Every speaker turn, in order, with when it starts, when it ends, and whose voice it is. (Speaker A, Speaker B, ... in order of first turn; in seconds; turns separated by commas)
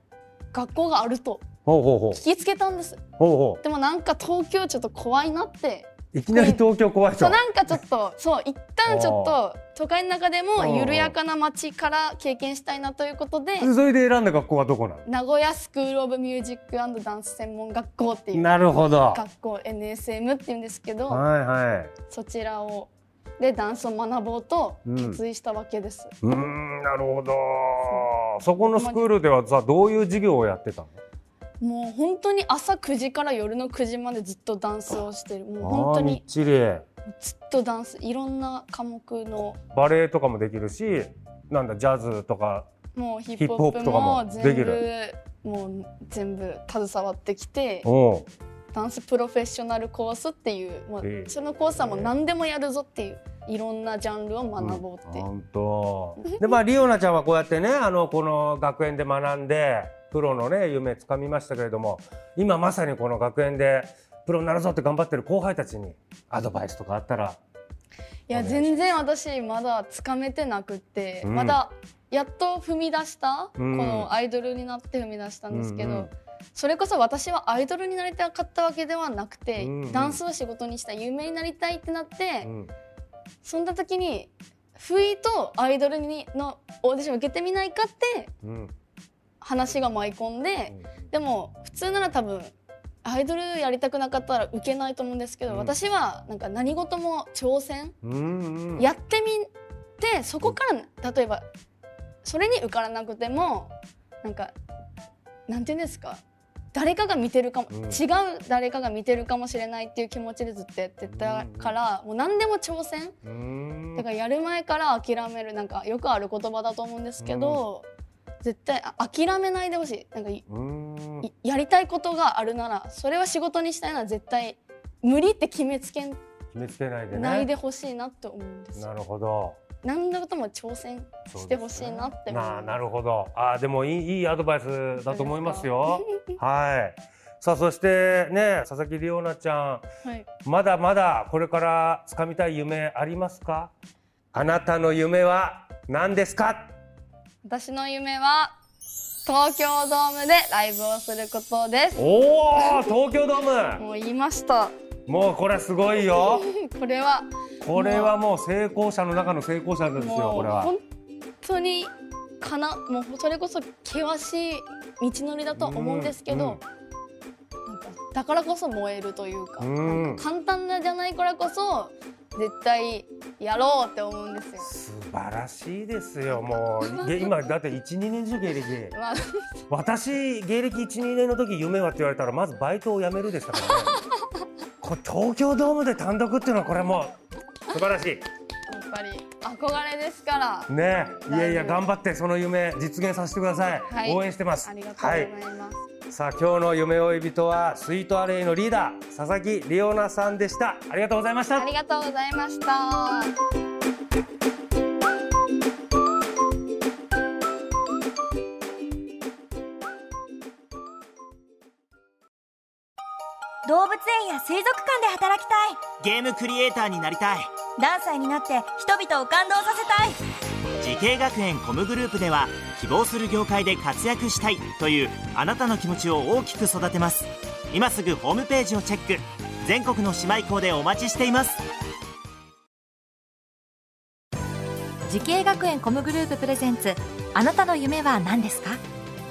Speaker A: 0.5-1.4, Speaker B: 1.6-2.2, Speaker A: 2.1-3.0, Speaker B: 3.2-3.6, Speaker A: 3.6-6.6, Speaker B: 6.1-7.4, Speaker A: 7.2-13.7, Speaker B: 8.8-9.4, Speaker B: 10.6-11.2, Speaker B: 13.6-15.0, Speaker A: 15.0-21.2, Speaker B: 18.3-19.2, Speaker B: 21.1-21.9, Speaker A: 22.1-26.1, Speaker B: 24.9-25.2, Speaker B: 26.2-31.0, Speaker A: 28.7-29.1, Speaker A: 31.6-36.2, Speaker B: 35.6-36.8, Speaker A: 37.1-39.6, Speaker B: 39.7-42.7, Speaker A: 42.9-47.9, Speaker B: 43.4-44.9, Speaker B: 47.8-48.3, Speaker A: 48.7-55.3, Speaker B: 51.0-52.1, Speaker B: 54.6-67.4, Speaker A: 56.2-56.5, Speaker A: 68.3-82.5, Speaker B: 68.3-68.8, Speaker B: 71.2-71.6, Speaker B: 73.6-74.1, Speaker B: 75.5-76.1, Speaker B: 79.6-80.2, Speaker B: 82.4-82.7, Speaker A: 83.4-88.3, Speaker B: 88.4-88.7, Speaker A: 89.4-92.5, Speaker A: 93.0-97.9, Speaker B: 95.5-95.8, Speaker B: 98.0-98.9, Speaker A: 98.8-99.5, Speaker A: 100.0-101.5, Speaker A: 102.2-104.5, Speaker A: 105.5-106.2, Speaker A: 106.7-113.2, Speaker B: 107.7-108.0, Speaker B: 111.0-111.8, Speaker B: 113.2-114.0, Speaker A: 113.9-117.9, Speaker B: 117.2-117.7, Speaker A: 118.4-120.4, Speaker B: 120.5-121.3, Speaker A: 121.2-126.2, Speaker B: 126.5-127.5, Speaker A: 127.1-128.9, Speaker B: 128.7-129.6, Speaker A: 129.8-132.8, Speaker B: 131.3-139.8, Speaker A: 135.0-136.3, Speaker B: 140.4-143.7, Speaker B: 144.3-146.7, Speaker A: 147.4-148.5, Speaker A: 149.2-152.0, Speaker B: 152.0-153.8, Speaker A: 152.6-152.9, Speaker A: 153.8-154.7, Speaker B: 155.1-156.5, Speaker A: 155.9-158.2, Speaker B: 157.6-160.7, Speaker A: 159.9-160.8, Speaker A: 161.4-166.6, Speaker B: 165.6-166.6, Speaker A: 167.7-174.7, Speaker B: 169.6-170.2, Speaker B: 174.6-178.9, Speaker A: 176.3-177.4, Speaker A: 178.9-179.5, Speaker B: 179.7-183.9, Speaker A: 183.9-184.2, Speaker B: 184.8-187.2, Speaker B: 187.7-188.2, Speaker A: 188.7-191.9, Speaker B: 190.7-195.3, Speaker A: 193.9-195.8, Speaker B: 196.1-201.7, Speaker A: 201.6-203.3, Speaker C: 213.6-215.8, Speaker D: 216.0-217.5, Speaker C: 217.8-220.2, Speaker D: 220.8-231.6, Speaker E: 235.1-238.8